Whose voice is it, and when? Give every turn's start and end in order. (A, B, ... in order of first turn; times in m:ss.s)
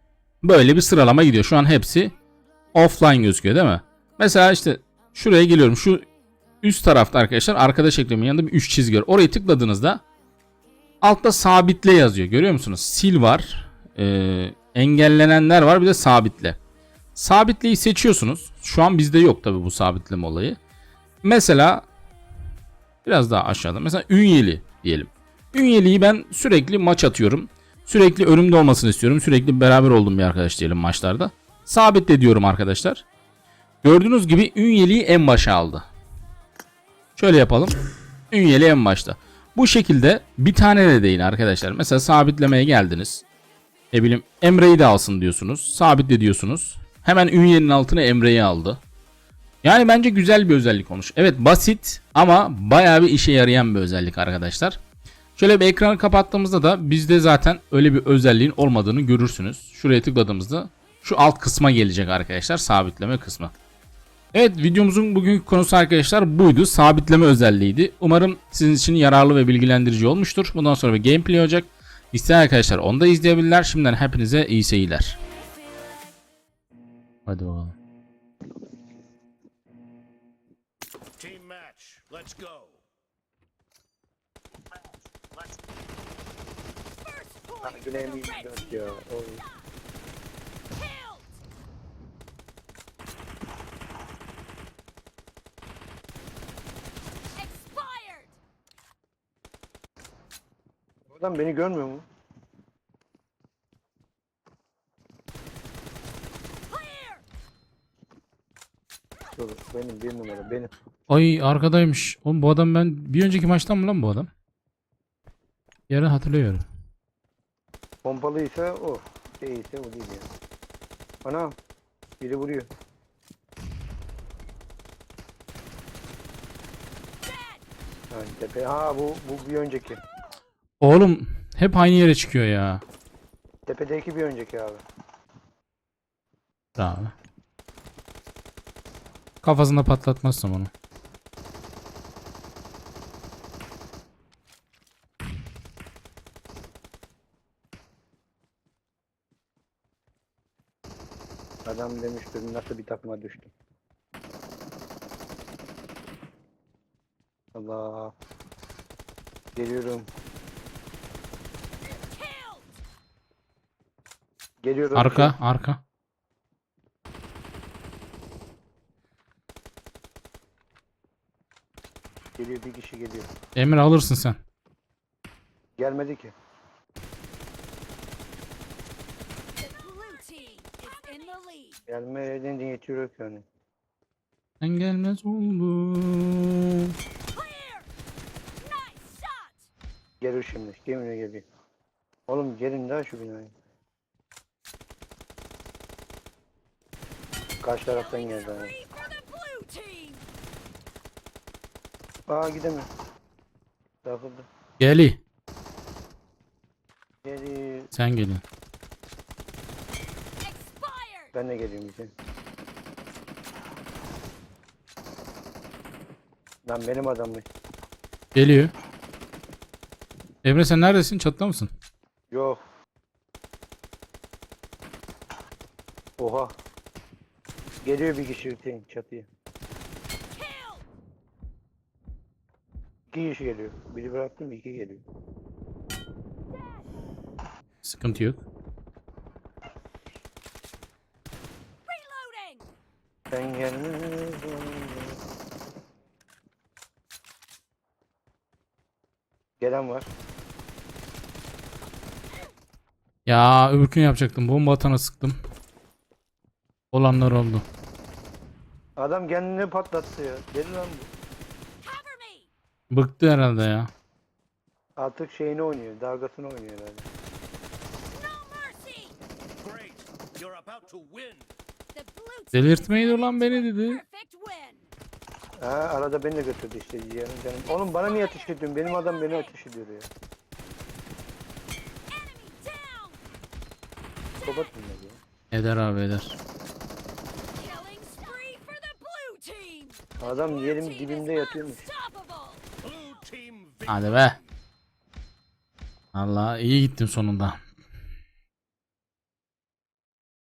0:00.4-0:02.1 A
0:02.7-0:06.0 A
0:06.6-0:10.0 A
0:11.0-0:16.6 A
0:17.1-0:20.6 A
0:21.2-0:21.8 A
0:23.0-0:33.0 A
0:33.8-0:35.8 A
0:37.2-0:37.7 A
0:38.3-0:43.2 A
0:43.9-0:48.8 A
0:49.6-0:54.8 A
0:55.4-1:03.5 A
1:04.3-1:15.2 A
1:17.3-1:17.8 A
1:21.2-1:22.8 B
1:27.0-1:27.6 C
1:27.6-1:29.4 D
1:30.8-1:31.2 C
1:37.4-1:38.3 C
1:41.1-1:42.0 D
1:49.3-1:50.7 D
1:51.1-1:54.3 A
1:55.9-1:56.6 A
1:58.0-2:00.3 D
2:01.2-2:01.6 D
2:02.2-2:02.7 D
2:08.1-2:10.0 D
2:10.8-2:12.8 A
2:13.6-2:14.8 D
2:16.8-2:17.1 A
2:19.4-2:20.7 A
2:31.6-2:33.5 D
2:37.5-2:38.1 D
2:39.5-2:40.1 D
2:44.6-2:45.4 D
2:44.9-2:45.8 A
2:52.4-2:53.3 D
2:53.6-2:54.4 A
2:55.8-2:56.3 D
2:59.6-3:01.7 C
3:01.9-3:03.4 D
3:04.6-3:06.9 A
3:07.4-3:07.8 C
3:08.7-3:09.5 C
3:10.2-3:11.4 D
3:12.3-3:13.5 D
3:17.6-3:18.8 D
3:18.8-3:20.2 C
3:22.3-3:22.9 D
3:24.0-3:24.5 D
3:24.8-3:25.2 A
3:27.2-3:27.9 D
3:27.9-3:28.4 A
3:30.6-3:31.2 C
3:31.3-3:32.1 D
3:36.6-3:37.4 D
3:38.3-3:38.7 A
3:40.4-3:41.7 A
3:42.3-3:42.6 D
3:46.2-3:46.5 D
3:47.8-3:49.3 D
3:53.1-3:55.0 D
3:57.8-3:58.4 A
4:01.9-4:02.6 C
4:03.3-4:05.2 D
4:09.6-4:10.1 D
4:13.2-4:15.4 A
4:16.9-4:17.6 A
4:19.0-4:21.1 D
4:21.8-4:22.4 C
4:22.9-4:23.9 A
4:25.0-4:27.1 D
4:28.1-4:29.1 C
4:29.6-4:31.4 B
4:32.0-4:33.3 C
4:32.5-4:34.0 A
4:34.0-4:34.8 C
4:35.6-4:40.1 D
4:42.1-4:43.2 C
4:44.4-4:45.2 D
4:45.5-4:46.4 A
4:47.6-4:50.0 C
4:50.2-4:51.9 D
4:52.0-4:52.6 C
4:52.8-4:53.9 B
4:53.9-4:54.4 A
4:56.1-4:57.6 A